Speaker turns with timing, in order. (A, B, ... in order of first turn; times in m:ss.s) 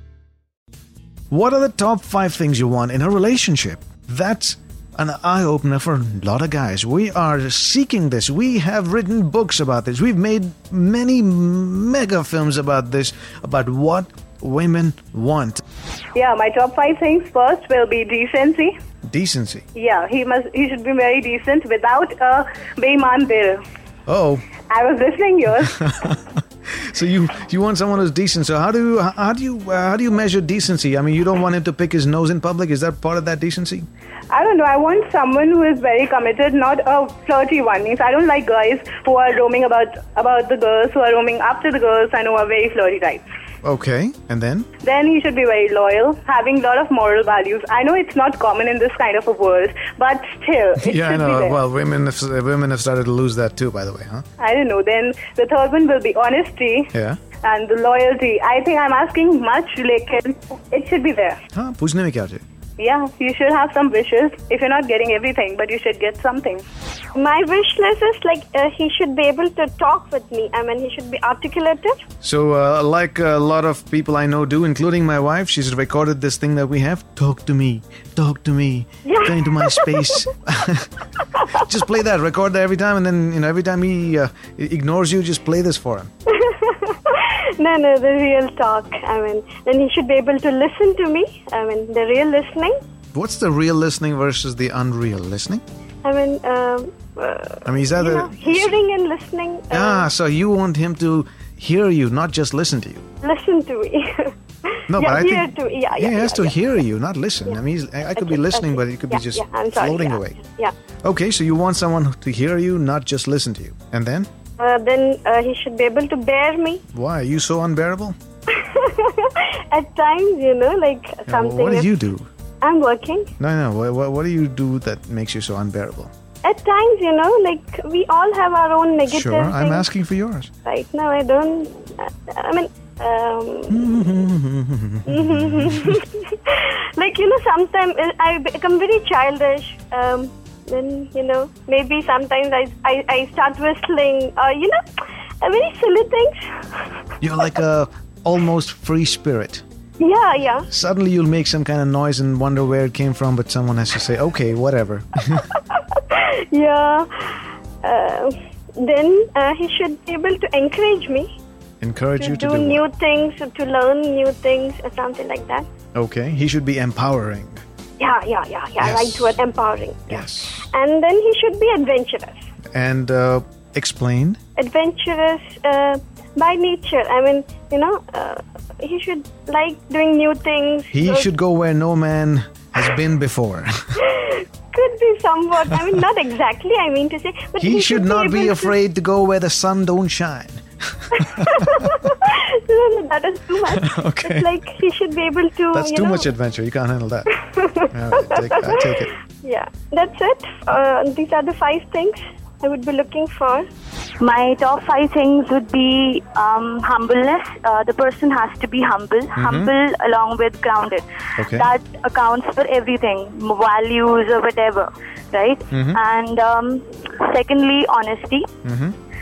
0:01.3-0:15.6 A
0:16.2-0:18.8 B
0:19.1-0:19.6 A
0:19.8-0:23.6 B
0:24.1-0:24.4 A
0:24.7-0:25.7 B
0:25.8-0:33.9 A
0:34.3-0:43.3 B
0:43.6-0:44.7 A
0:44.8-0:51.6 B
0:50.8-0:54.2 A
0:54.4-0:56.9 B
0:56.9-0:57.2 A
0:57.4-1:01.4 B
1:01.5-1:02.4 A
1:02.8-1:06.6 B
1:07.2-1:11.9 C
1:12.2-1:26.1 A
1:19.0-1:20.2 C
1:27.6-1:32.7 C
1:33.1-1:35.6 A
1:36.0-1:40.0 C
1:37.6-1:38.8 A
1:39.7-1:43.1 A
1:43.2-1:44.0 C
1:44.9-1:50.4 A
1:45.0-1:46.5 C
1:48.2-1:50.0 C
1:51.0-1:54.3 A
1:54.6-1:56.8 C
1:56.9-1:58.2 A
1:59.7-2:01.8 C
2:01.3-2:02.3 A
2:02.6-2:03.3 C
2:03.4-2:06.1 A
2:06.4-2:09.8 C
2:09.1-2:10.5 A
2:10.6-2:13.7 C
2:13.7-2:16.0 A
2:15.2-2:16.0 C
2:17.0-2:24.8 C
2:25.4-2:26.3 C
2:27.2-2:29.6 A
2:30.0-2:30.6 C
2:30.7-2:35.5 A
2:36.2-2:37.0 C
2:37.8-2:41.3 C
2:41.8-2:42.8 A
2:42.2-2:45.6 C
2:45.9-2:47.6 A
2:48.0-2:52.4 C
2:48.8-2:49.4 A
2:50.1-2:50.7 A
2:52.7-2:54.4 A
2:54.6-3:01.3 C
3:00.9-3:04.0 A
3:04.7-3:08.6 C
3:05.6-3:06.0 A
3:07.6-3:11.9 A
3:12.7-3:13.9 C
3:13.7-3:14.7 A
3:14.4-3:16.2 C
3:15.7-3:17.4 A
3:17.9-3:19.1 A
3:19.4-3:23.6 C
3:24.2-3:38.5 D
3:29.4-3:29.7 A
3:31.4-3:31.7 A
3:35.7-3:36.0 A
3:38.6-3:39.0 A